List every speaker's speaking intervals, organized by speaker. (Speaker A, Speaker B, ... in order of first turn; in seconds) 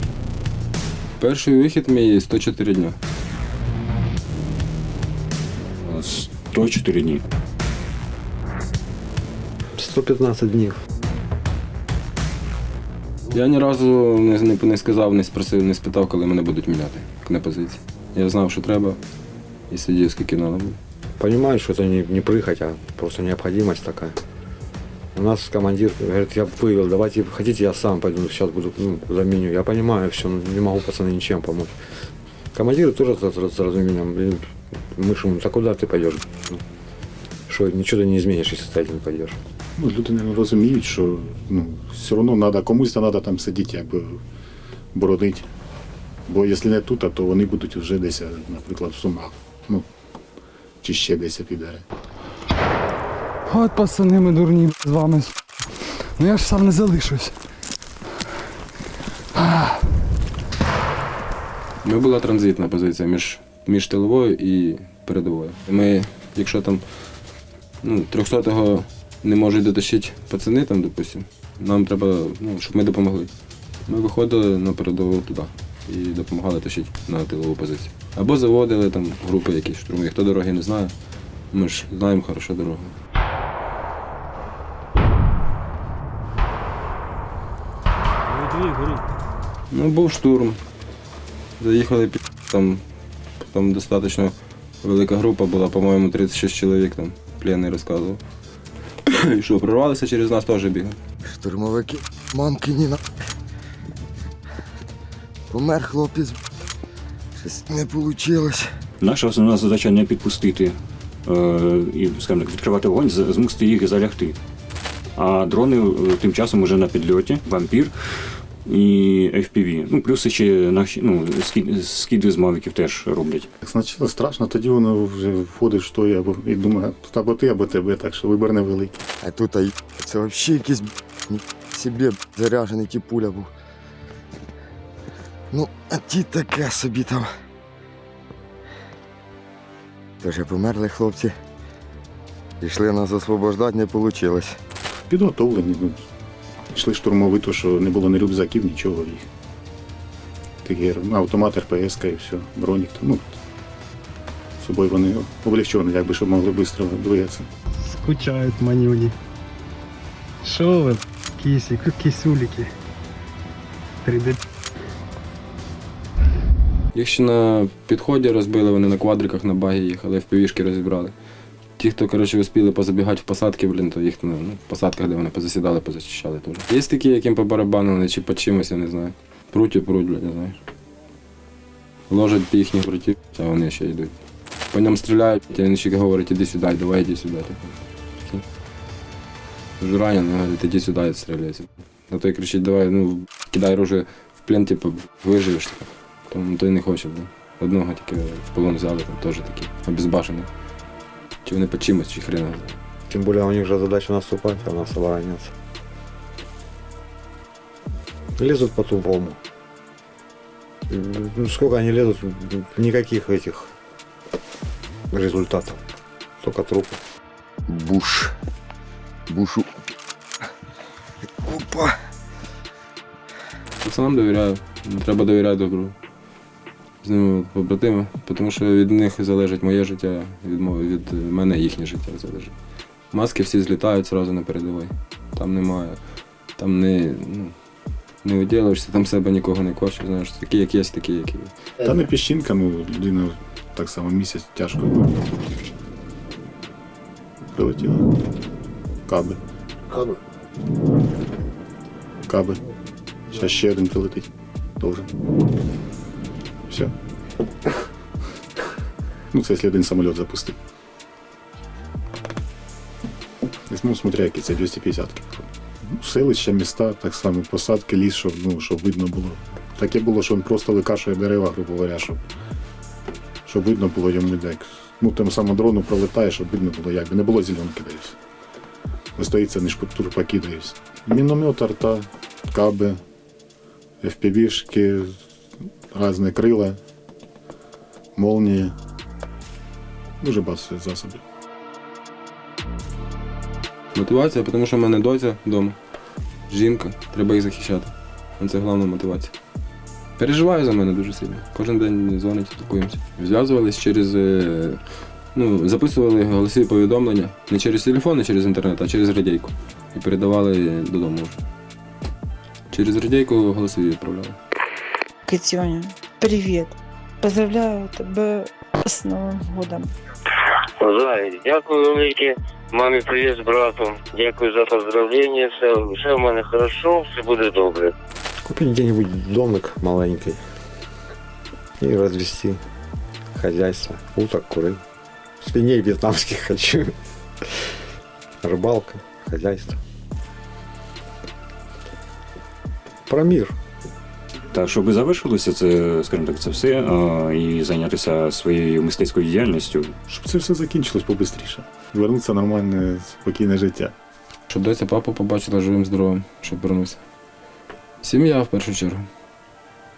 Speaker A: 1.2-3.0, 13.3-19.0, 19.7-20.8, 61.8-66.8, 67.8-73.3, 73.8-80.9, 81.5-83.0, 89.7-90.6, 91.6-92.8, 93.4-98.2, 99.0-101.0, 166.9-171.1, 171.8-180.6, 182.1-184.1, 184.7-188.4, 189.8-200.5, 201.4-202.8, 223.8-225.9, 227.0-232.5, 233.1-236.0, 236.6-237.5, 238.2-241.5, 293.9-295.8, 296.5-299.3, 300.2-304.8, 305.3-311.4, 312.7-314.4, 354.5-357.0, 358.0-359.1
Speaker B: 5.8-7.2, 109.0-114.4, 115.2-117.9, 118.6-123.5, 344.5-349.9
Speaker C: 9.8-10.8, 21.2-24.2, 25.1-31.7, 32.5-36.6, 37.5-39.4, 203.1-205.5, 208.4-209.4, 210.9-213.7, 215.1-215.8, 216.4-217.0, 328.5-330.4, 331.8-332.6, 333.3-334.8, 335.4-336.9, 338.4-339.8, 343.1-343.5
Speaker D: 39.8-44.2, 44.9-45.5, 46.3-49.9, 50.8-51.8, 123.6-129.0, 145.1-146.0, 146.7-149.2, 150.6-153.4, 154.6-157.5, 241.8-245.2, 247.5-248.1, 249.1-249.4, 252.3-252.6, 253.3-254.3, 254.8-255.1, 256.7-256.9, 259.3-260.6, 263.7-272.2, 273.4-278.1, 279.2-283.0, 284.0-285.1, 285.9-286.8, 288.1-288.7, 290.2-291.2, 350.1-353.9
Speaker E: 53.5-55.3, 56.2-57.3
Speaker F: 101.3-103.0, 105.5-106.4, 107.4-108.7, 129.2-133.5, 135.5-137.3, 140.2-141.3, 142.6-144.6, 217.7-218.3, 219.3-219.7, 221.4-221.9
Speaker G: 157.8-159.2, 160.4-162.7, 164.0-164.4
Speaker H: 315.3-319.9
Speaker I: 320.8-327.9